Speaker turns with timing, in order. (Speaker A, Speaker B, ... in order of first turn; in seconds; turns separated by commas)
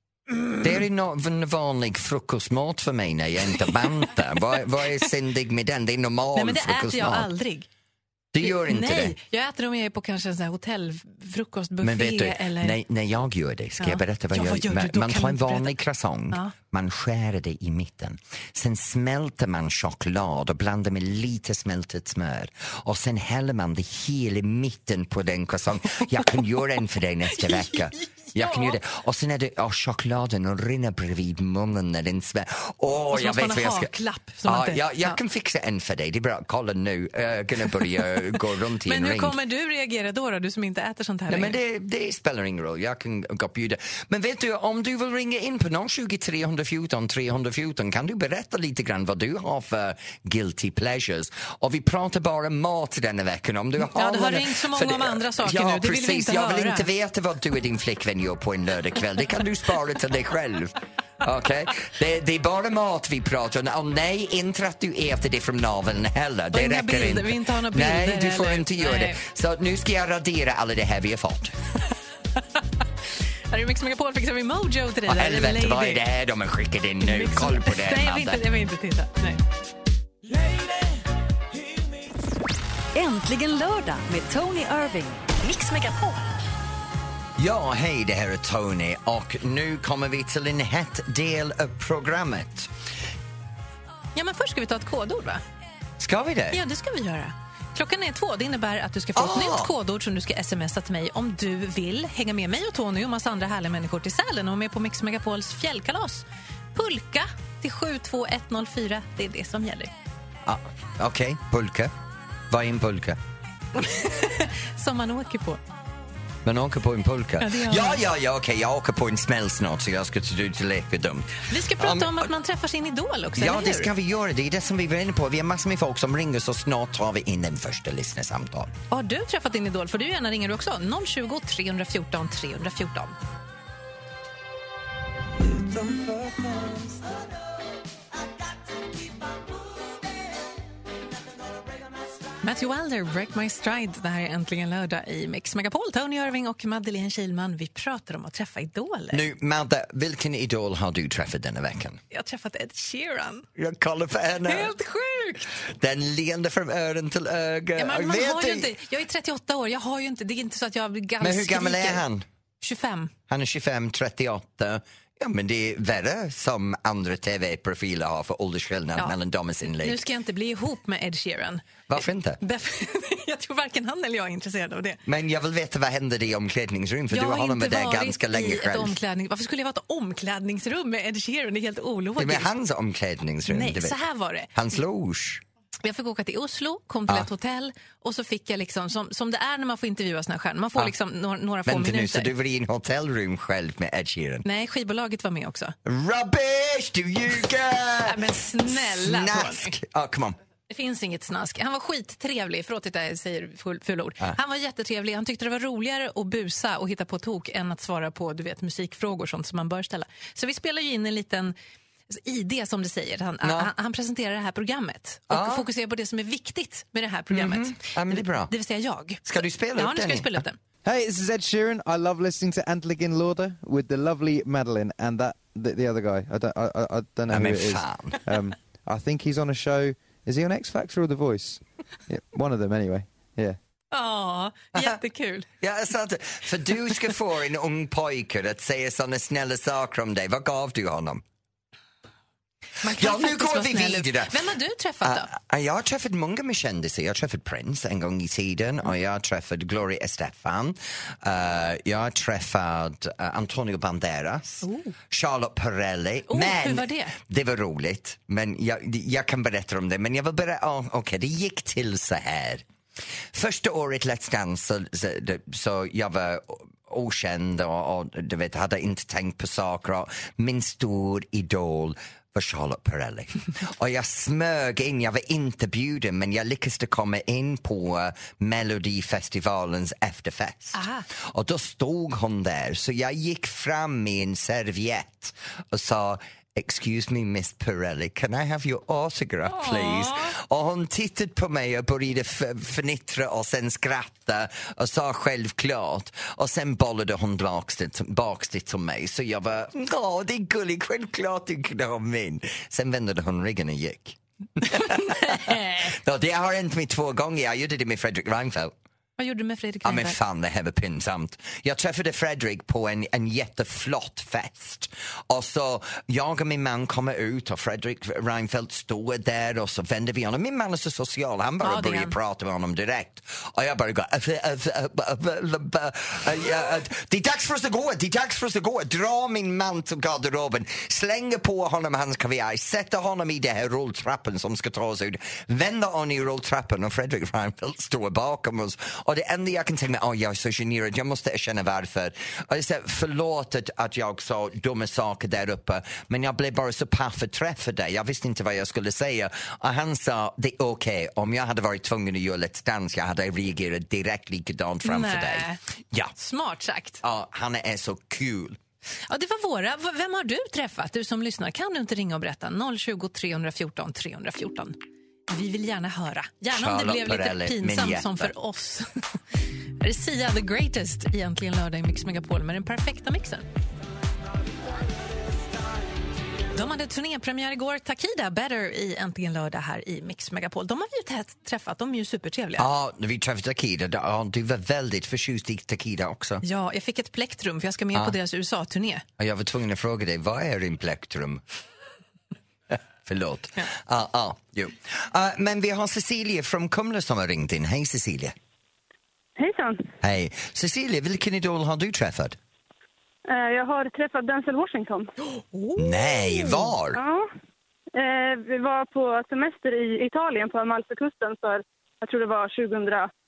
Speaker A: 0.3-0.8, Speaker B: 0.6-7.3, Speaker A: 6.3-7.7, Speaker B: 8.3-9.2, Speaker A: 8.4-12.8, Speaker B: 11.8-33.9, Speaker A: 13.8-15.8, Speaker A: 27.3-28.8, Speaker A: 33.1-35.2, Speaker B: 34.5-39.4, Speaker A: 38.9-41.6, Speaker B: 41.3-71.5, Speaker A: 53.8-56.9, Speaker A: 66.5-69.2, Speaker A: 73.5-76.0, Speaker B: 75.1-78.4, Speaker A: 77.0-79.4, Speaker C: 82.9-86.3, Speaker B: 87.4-92.7, Speaker A: 94.2-95.4, Speaker B: 96.0-96.6, Speaker A: 96.5-109.9, Speaker B: 99.2-99.7, Speaker B: 110.5-111.9, Speaker B: 112.5-113.2, Speaker A: 113.8-115.6, Speaker B: 116.5-122.3, Speaker A: 117.4-118.0, Speaker A: 121.5-123.9, Speaker B: 123.4-128.7, Speaker A: 128.9-133.2, Speaker A: 142.4-149.2, Speaker B: 149.1-152.0, Speaker A: 152.1-153.5, Speaker B: 153.6-154.7, Speaker A: 154.4-155.5, Speaker B: 155.6-158.7, Speaker A: 157.8-162.0, Speaker B: 161.2-162.2, Speaker A: 162.6-163.1, Speaker B: 163.3-170.0, Speaker A: 169.7-171.8, Speaker B: 171.9-172.4, Speaker A: 172.4-175.0, Speaker B: 175.1-179.0, Speaker A: 177.1-182.5, Speaker B: 182.2-184.0, Speaker A: 183.5-184.5, Speaker B: 184.5-185.4, Speaker A: 185.8-192.3, Speaker B: 191.7-194.4, Speaker A: 194.4-195.8, Speaker B: 195.8-200.4, Speaker A: 198.1-199.8, Speaker A: 200.7-211.5, Speaker A: 212.1-220.6, Speaker B: 213.4-213.7, Speaker B: 215.3-215.7, Speaker B: 217.3-218.5, Speaker B: 219.2-220.4, Speaker D: 220.8-233.6, Speaker B: 227.3-228.2, Speaker A: 233.9-235.5, Speaker B: 234.7-235.0, Speaker B: 235.6-241.2, Speaker A: 242.8-245.3, Speaker B: 242.8-244.5, Speaker B: 245.0-262.6, Speaker A: 254.6-254.9, Speaker A: 256.3-257.2, Speaker B: 263.3-308.8, Speaker A: 280.7-281.1, Speaker A: 289.5-290.3, Speaker A: 304.8-305.9, Speaker A: 309.2-310.2, Speaker B: 309.8-356.1, Speaker A: 321.6-322.1, Speaker A: 354.8-355.6, Speaker A: 356.2-357.0, Speaker B: 357.0-358.6, Speaker A: 359.1-364.8, Speaker A: 365.3-369.2, Speaker B: 366.5-368.3, Speaker A: 369.8-373.5, Speaker A: 376.5-382.7, Speaker B: 382.6-386.4, Speaker A: 386.4-389.1, Speaker B: 389.2-391.4, Speaker B: 392.7-398.4, Speaker E: 399.4-399.9, Speaker B: 400.0-402.4, Speaker E: 403.3-405.1, Speaker A: 405.3-406.7, Speaker B: 405.8-407.0, Speaker E: 406.9-407.3, Speaker E: 407.9-413.1